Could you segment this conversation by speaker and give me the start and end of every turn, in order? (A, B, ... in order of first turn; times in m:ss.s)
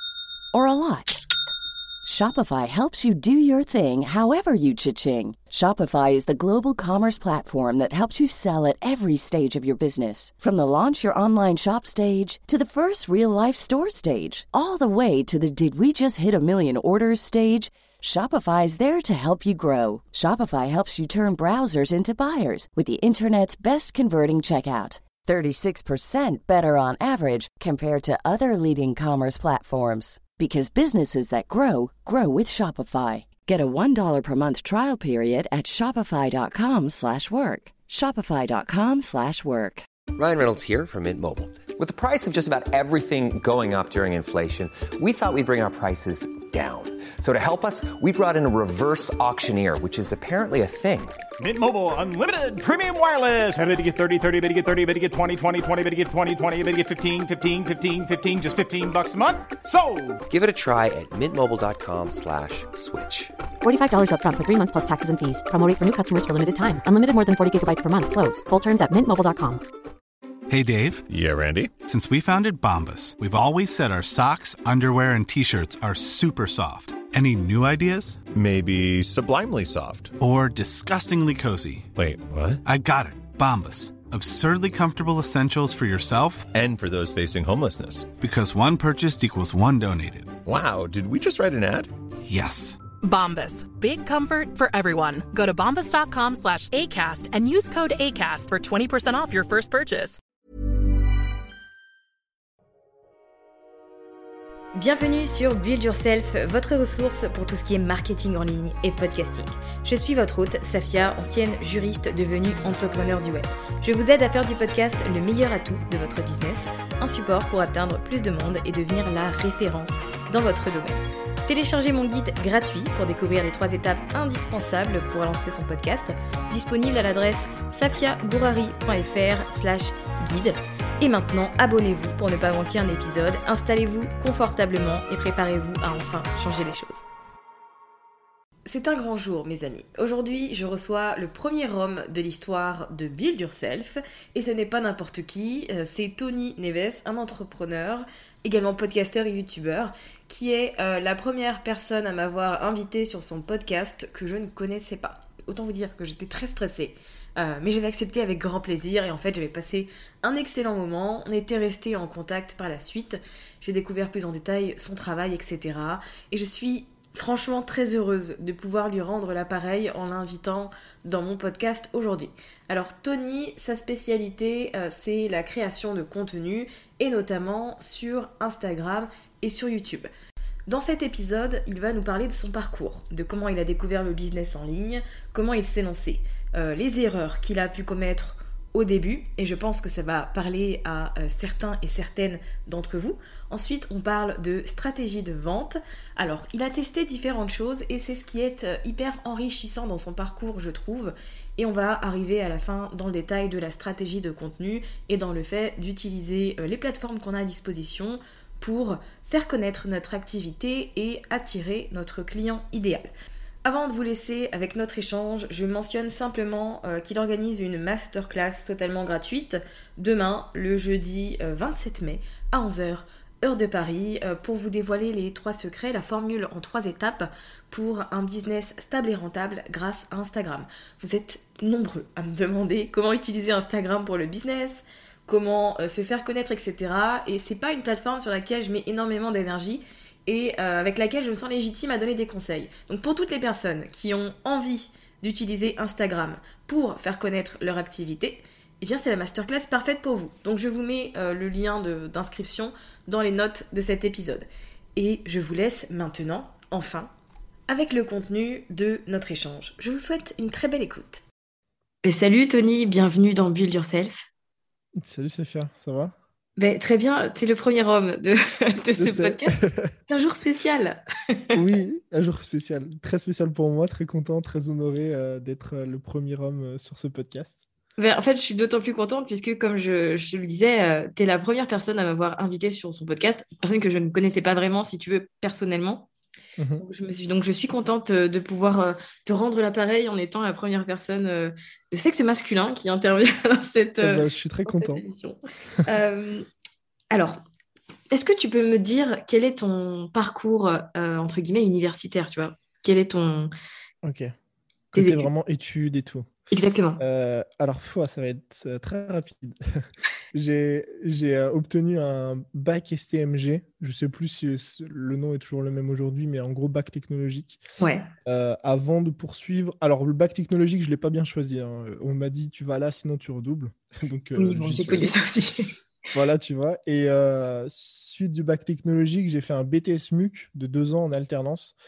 0:00.5-0:01.2 A
0:02.0-0:39.9 A
0:40.1-0:51.2 B
0:51.4-1:00.2 C
1:00.3-1:03.4 B
1:03.6-1:09.6 D
1:10.5-1:11.0 E
1:11.1-1:11.7 F
1:11.8-1:18.2 E
1:18.3-1:20.2 F
1:20.2-1:21.9 E
1:22.0-1:22.6 F
1:22.6-1:26.5 E
1:26.5-1:28.1 F
1:28.2-1:30.4 E
1:30.4-1:31.9 F
1:32.2-1:32.8 E
1:33.0-1:40.2 G
1:44.8-2:17.0 H
2:18.7-3:00.1 H
3:00.7-3:33.1 H
3:33.6-4:17.1 H
4:17.7-4:21.2 H
4:22.0-4:24.2 H
4:25.0-4:26.1 I
4:26.6-4:29.6 H
4:29.0-4:29.9 I
4:30.1-4:31.6 H
4:31.5-4:37.6 I
4:38.0-4:46.1 H
4:46.6-4:46.8 I
4:46.8-4:56.5 H
4:54.0-4:55.0 I
4:57.1-4:57.4 H
4:58.1-5:03.5 H
5:04.0-5:04.4 I
5:04.9-5:06.3 I
5:05.0-5:05.3 H
5:06.5-5:07.0 H
5:07.0-5:17.6 I
5:17.8-5:18.1 H
5:18.2-5:25.1 I
5:24.4-5:25.7 H
5:26.1-5:31.8 I